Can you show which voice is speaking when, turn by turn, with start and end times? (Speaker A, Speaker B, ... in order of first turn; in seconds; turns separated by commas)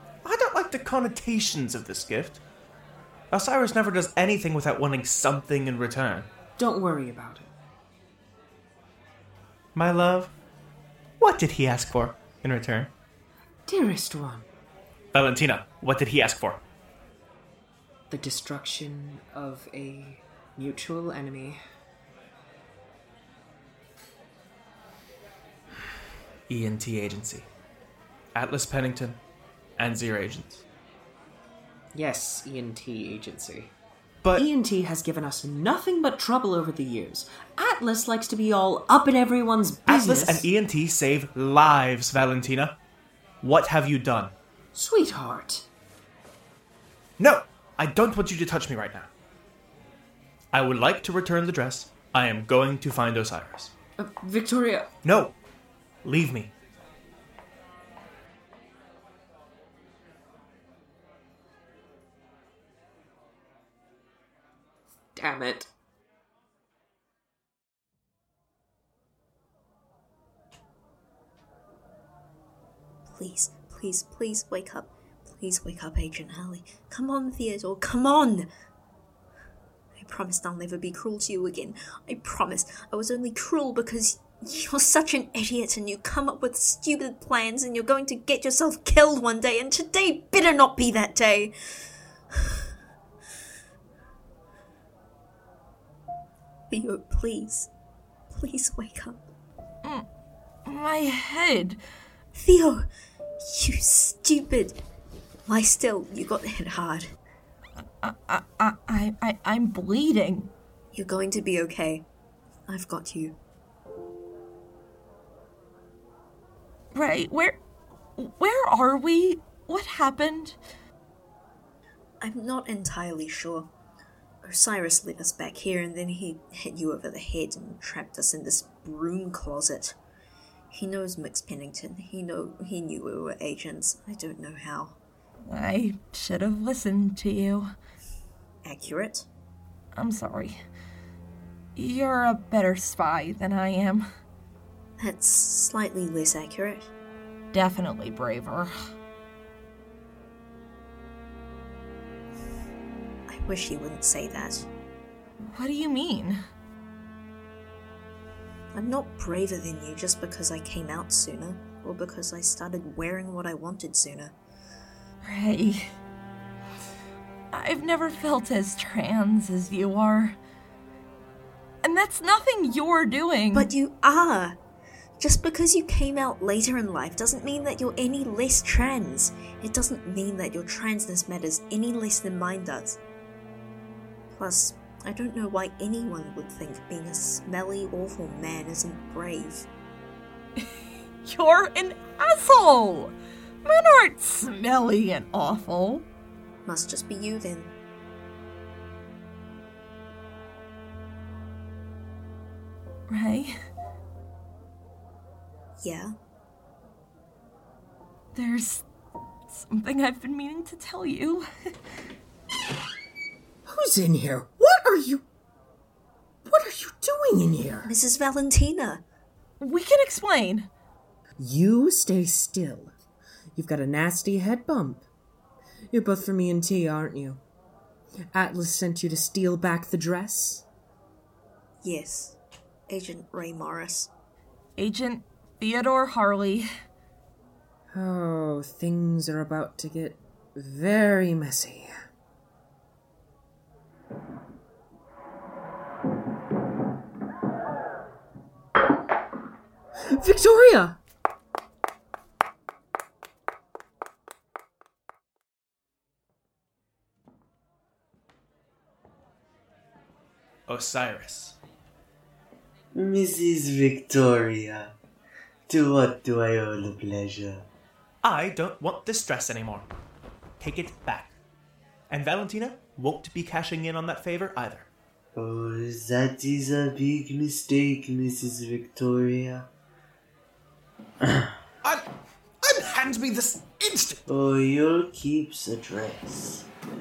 Speaker A: 0.2-2.4, Speaker A: 3.3-6.3, Speaker B: 6.6-7.5, Speaker A: 9.8-10.3, Speaker A: 11.2-12.9, Speaker B: 13.7-14.5, Speaker A: 15.1-16.6, Speaker B: 18.1-21.6, Speaker A: 26.5-27.5, Speaker A: 28.4-29.2, Speaker A: 29.8-30.6, Speaker B: 31.9-33.7, Speaker B: 34.4-40.5, Speaker A: 39.9-42.8, Speaker A: 43.4-44.3, Speaker B: 44.8-45.7, Speaker A: 47.2-49.1, Speaker A: 50.5-53.7, Speaker B: 54.0-54.9, Speaker A: 55.0-55.4, Speaker A: 56.0-56.5, Speaker B: 65.2-65.7, Speaker C: 73.1-78.5, Speaker C: 80.0-91.5, Speaker C: 96.7-97.7, Speaker C: 98.3-99.3, Speaker D: 100.7-101.8, Speaker C: 102.3-102.9, Speaker C: 103.4-104.8, Speaker C: 105.5-107.1, Speaker D: 107.8-110.5, Speaker C: 110.9-112.1, Speaker C: 112.7-113.4, Speaker D: 116.9-117.6, Speaker D: 118.2-120.6, Speaker C: 122.2-123.7, Speaker C: 124.4-130.0, Speaker C: 130.7-135.0, Speaker D: 135.5-137.7, Speaker C: 138.6-139.3, Speaker D: 139.9-140.6, Speaker D: 141.8-144.1, Speaker C: 145.0-146.9, Speaker D: 147.5-148.7, Speaker C: 153.3-154.7, Speaker D: 155.4-156.4, Speaker C: 158.7-164.3, Speaker D: 165.2-165.9, Speaker D: 167.5-170.4, Speaker D: 171.8-173.7, Speaker C: 173.5-174.6, Speaker C: 175.2-183.0, Speaker C: 184.3-189.7, Speaker D: 191.2-196.1, Speaker C: 196.7-197.8, Speaker D: 203.1-203.5, Speaker C: 205.8-206.1, Speaker D: 208.3-208.8, Speaker D: 209.5-211.5, Speaker B: 213.7-215.3, Speaker B: 216.4-217.9, Speaker C: 217.8-219.0, Speaker D: 219.6-220.7, Speaker B: 221.4-222.9, Speaker B: 223.6-225.1, Speaker B: 225.9-227.4, Speaker B: 228.3-230.7, Speaker C: 231.8-234.1, Speaker D: 234.8-236.7, Speaker B: 237.9-241.9, Speaker B: 250.1-251.0, Speaker A: 260.7-261.6, Speaker E: 262.9-264.9, Speaker E: 265.7-267.7, Speaker A: 268.2-269.9, Speaker A: 270.6-271.3, Speaker A: 272.1-274.9, Speaker E: 275.4-279.7, Speaker E: 281.2-281.5, Speaker A: 282.6-284.2, Speaker E: 284.3-286.7